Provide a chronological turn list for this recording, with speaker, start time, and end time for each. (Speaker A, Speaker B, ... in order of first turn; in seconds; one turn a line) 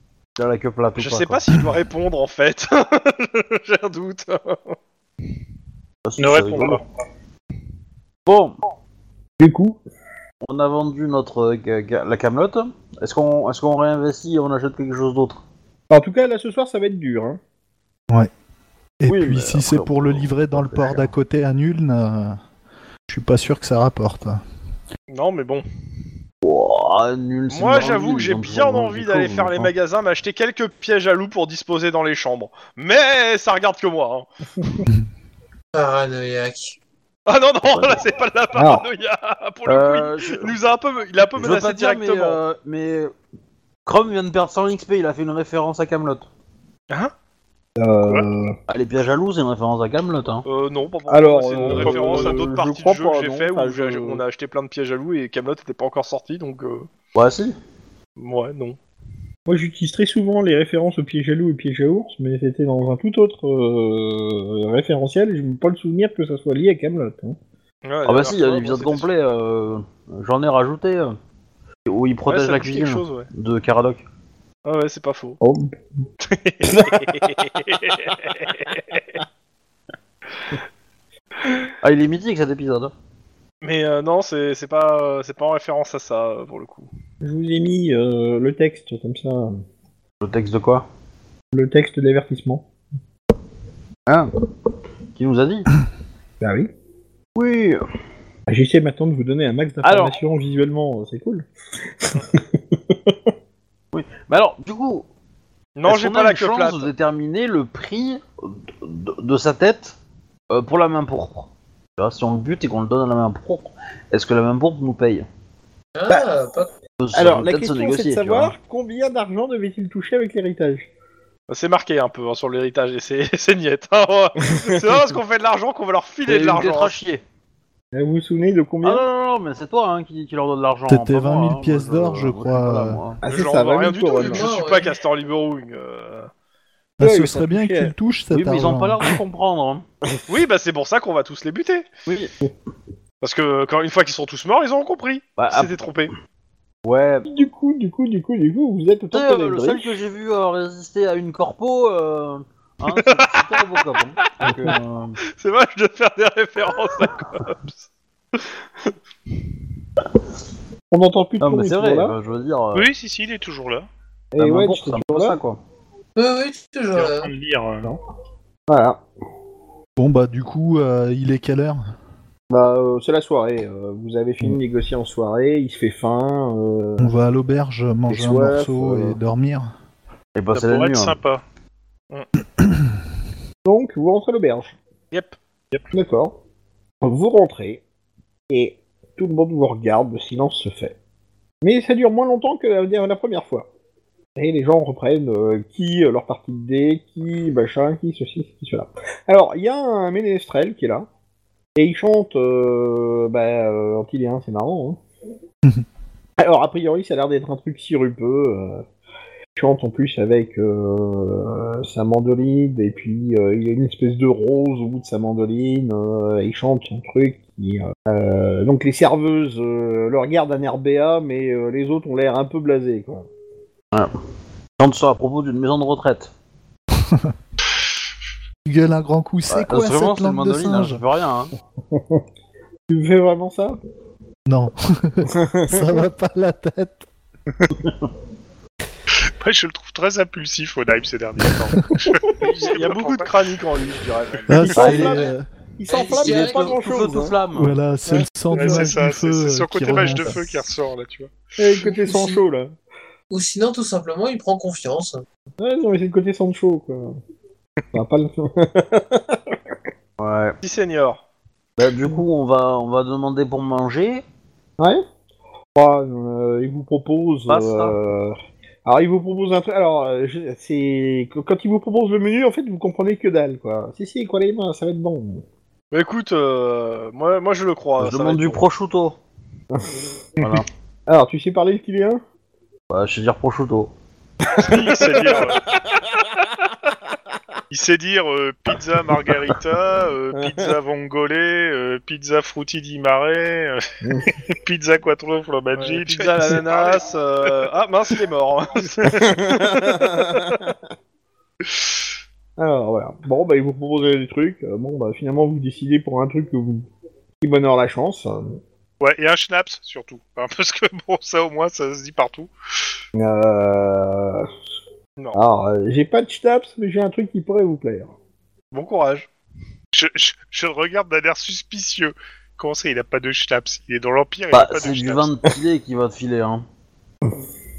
Speaker A: 0.4-1.4
Speaker B: 1.0-4.7
Speaker A: 6.0-6.8
Speaker C: 6.2-6.8
Speaker A: 8.2-8.5
Speaker D: 9.4-9.8
Speaker A: 10.4-15.4
Speaker D: 15.9-17.4
Speaker E: 19.0-22.4
Speaker A: 19.1-21.1
Speaker E: 23.1-24.4
Speaker B: 25.1-25.6
Speaker A: 26.4-29.7
Speaker B: 27.5-34.3
Speaker F: 35.7-36.8
Speaker B: 37.3-42.4
Speaker D: 38.5-38.9
Speaker A: 39.7-40.5
Speaker A: 41.4-43.1
Speaker A: 43.9-46.3
Speaker D: 47.8-48.5
Speaker A: 48.7-50.4
Speaker B: 50.5-56.9
Speaker D: 51.1-54.2
Speaker C: 51.7-52.3
Speaker A: 57.1-57.5
Speaker B: 58.2-58.8
Speaker D: 59.5-67.4
Speaker B: 67.8-69.1
Speaker A: 68.0-71.2
Speaker A: 71.8-74.0
Speaker B: 72.3-73.3
Speaker B: 74.6-75.4
Speaker D: 75.4-75.7
Speaker B: 76.2-79.0
Speaker D: 76.7-77.3
Speaker A: 81.8-82.9
Speaker B: 83.6-86.9
Speaker D: 87.2-89.6
Speaker A: 90.2-90.9
Speaker D: 91.5-92.7
Speaker A: 95.1-95.7
Speaker D: 96.4-96.7
Speaker A: 97.3-97.8
Speaker D: 98.5-101.5
Speaker A: 99.8-100.2
Speaker D: 102.0-103.1
Speaker A: 103.9-105.1
Speaker B: 105.8-106.9
Speaker A: 105.9-110.0
Speaker A: 110.5-115.2
Speaker F: 116.0-116.7
Speaker A: 117.0-118.5
Speaker D: 117.1-120.9
Speaker B: 121.5-126.9
Speaker D: 124.5-125.0
Speaker A: 126.2-127.2
Speaker D: 127.9-129.0
Speaker A: 128.8-133.2
Speaker E: 130.9-133.0
Speaker D: 133.2-134.5
Speaker B: 133.2-136.3
Speaker F: 134.1-134.9
Speaker E: 137.0-139.1
Speaker D: 137.0-137.9
Speaker A: 138.3-139.8
Speaker B: 140.3-141.8
Speaker A: 142.1-142.3
Speaker B: 143.2-146.1
Speaker A: 145.4-145.7
Speaker A: 146.8-147.3
Speaker D: 147.2-149.9
Speaker A: 149.1-155.2
Speaker B: 152.9-153.7
Speaker D: 154.4-154.7
Speaker B: 155.3-157.8
Speaker B: 158.3-158.9
Speaker D: 160.9-162.2
Speaker A: 161.4-162.9
Speaker C: 162.7-163.9
Speaker D: 164.3-165.4
Speaker A: 164.4-165.6
Speaker F: 166.2-167.3
Speaker C: 166.9-167.9
Speaker D: 168.7-169.0
Speaker E: 170.0-171.8
Speaker D: 172.5-177.1
Speaker E: 177.0-179.7
Speaker D: 178.1-179.2
Speaker A: 180.3-181.2
Speaker C: 180.5-181.4
Speaker D: 183.6-184.8
Speaker B: 185.1-185.4
Speaker D: 185.9-186.3
Speaker D: 187.0-187.8
Speaker D: 188.5-190.9
Speaker D: 191.6-193.7
Speaker D: 194.3-201.1
Speaker D: 201.8-205.0
Speaker D: 206.4-208.8
Speaker D: 209.6-223.3
Speaker A: 224.8-226.3
Speaker E: 227.0-227.3
Speaker E: 228.6-231.0
Speaker A: 229.5-231.5
Speaker D: 231.9-232.2
Speaker D: 232.9-233.8
Speaker E: 234.5-237.1
Speaker D: 235.3-236.0
Speaker C: 239.2-243.3
Speaker B: 242.4-244.9
Speaker E: 244.5-245.4
Speaker D: 244.6-247.4
Speaker A: 244.7-245.2
Speaker F: 244.8-245.3
Speaker F: 245.9-246.8
Speaker A: 246.0-247.7
Speaker E: 247.6-250.7
Speaker C: 248.5-251.3
Speaker D: 248.6-248.8
Speaker D: 251.6-252.7
Speaker F: 251.9-252.4
Speaker F: 253.3-255.2
Speaker D: 255.6-257.1
Speaker D: 257.9-259.6
Speaker A: 260.2-260.6
Speaker B: 260.6-261.2
Speaker A: 261.8-264.2
Speaker D: 265.7-275.4
Speaker A: 267.5-267.9
Speaker B: 275.9-278.6
Speaker A: 278.0-279.2
Speaker A: 280.4-280.7
Speaker D: 281.1-282.2
Speaker A: 282.9-283.9
Speaker C: 284.6-285.6
Speaker D: 284.6-285.6
Speaker C: 287.7-293.8
Speaker D: 290.4-290.7
Speaker D: 294.0-294.4
Speaker C: 294.5-297.6
Speaker B: 295.8-300.6
Speaker D: 299.1-300.7
Speaker D: 302.6-306.9
Speaker D: 307.4-308.6
Speaker C: 309.0-312.5
Speaker D: 313.1-314.5
Speaker D: 315.3-318.1
Speaker B: 318.7-319.3
Speaker C: 319.9-325.3
Speaker A: 324.5-326.6